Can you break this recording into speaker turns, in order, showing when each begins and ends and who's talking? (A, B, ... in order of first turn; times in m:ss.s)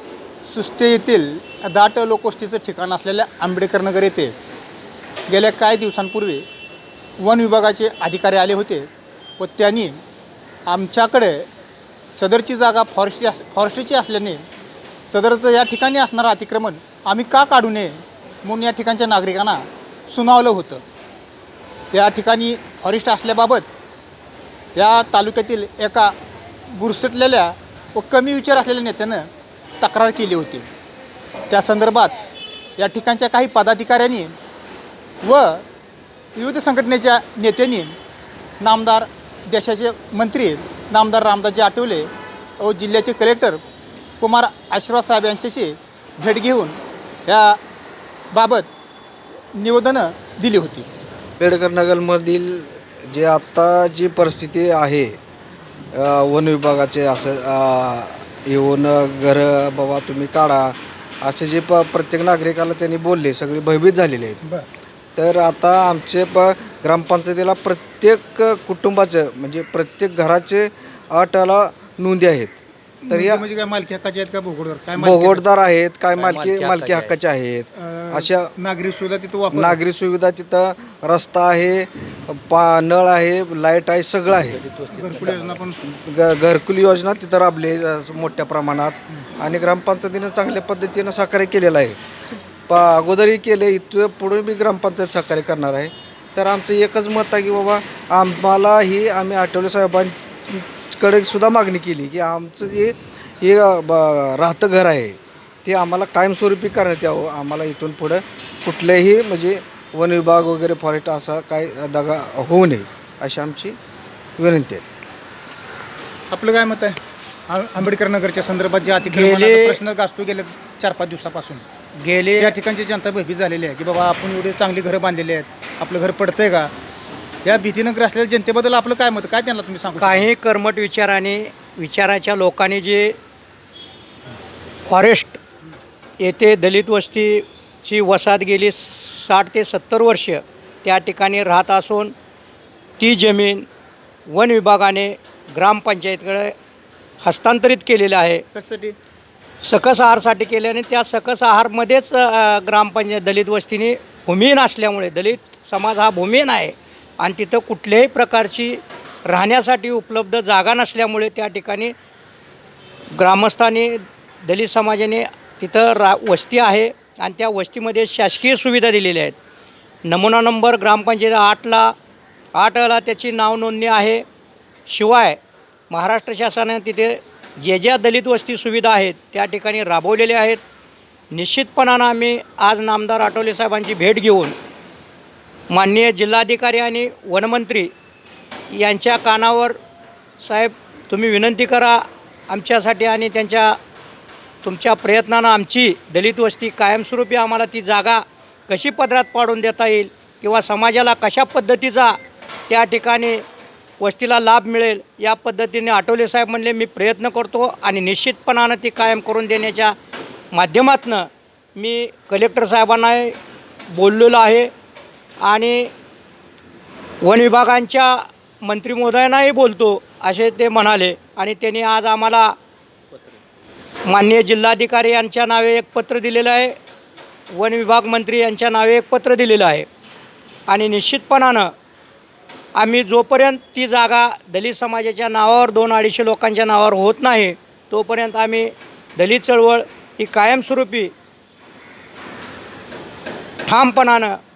0:00.4-0:04.3 A
0:05.3-0:06.4 A
0:07.2-0:10.0 A
0:10.7-0:11.4 A
0:12.1-0:14.4 A
0:15.1-0:20.8 A
0:21.9-0:23.7 A
0:24.7-0:26.1 A
0:26.7-0:29.3 A
0:29.8-0:30.7 A
0:31.5-0:32.1 A
0:32.8-0:34.3 A
0:35.2-0:35.6 A
0:36.4-0:37.9 A
0:38.6-0:42.1 A
0:42.6-0:43.6 A
0:44.2-0:47.6 A
0:48.3-0:48.7 A
0:49.6-0:50.9 A
0:51.4-0:55.2 B
0:55.9-1:04.4 B
1:05.2-1:12.6 B
1:13.0-1:15.4 A
1:13.1-1:13.4 B
1:15.0-1:18.5 B
1:16.2-1:17.2 C
1:17.7-1:19.8 A
1:19.5-1:24.6 B
1:24.6-1:25.3 C
1:24.9-1:25.8 A
1:26.0-1:32.0 B
1:32.7-1:53.8 B
1:54.4-1:54.8 B
1:56.3-1:57.0 A
1:57.5-2:01.6 A
1:59.1-1:59.8 C
2:02.0-2:02.5 C
2:02.4-2:06.7 A
2:07.4-2:10.3 A
2:10.0-2:13.2 C
2:14.8-2:15.4 C
2:16.2-2:22.1 C
2:23.0-2:23.6 C
2:24.3-2:26.5 C
2:27.2-2:28.4 C
2:28.5-2:28.9 A
2:29.6-2:41.9 C
2:43.1-2:49.3 C
2:50.0-2:51.9 C
2:52.5-2:54.2 C
2:54.9-3:00.6 C
3:01.3-3:04.5 C
3:05.7-3:07.9 C
3:08.7-3:09.8 C
3:10.4-3:13.8 C
3:14.6-3:22.2 C
3:22.7-3:23.4 C
3:24.0-3:29.9 C
3:30.5-3:33.3 C
3:33.9-3:34.7 C
3:35.4-3:35.9 C
3:37.2-3:42.5 C
3:44.0-3:46.7 C
3:47.5-3:49.9 C
3:50.7-3:51.7 C
3:52.8-4:01.1 C
4:03.6-4:04.4 C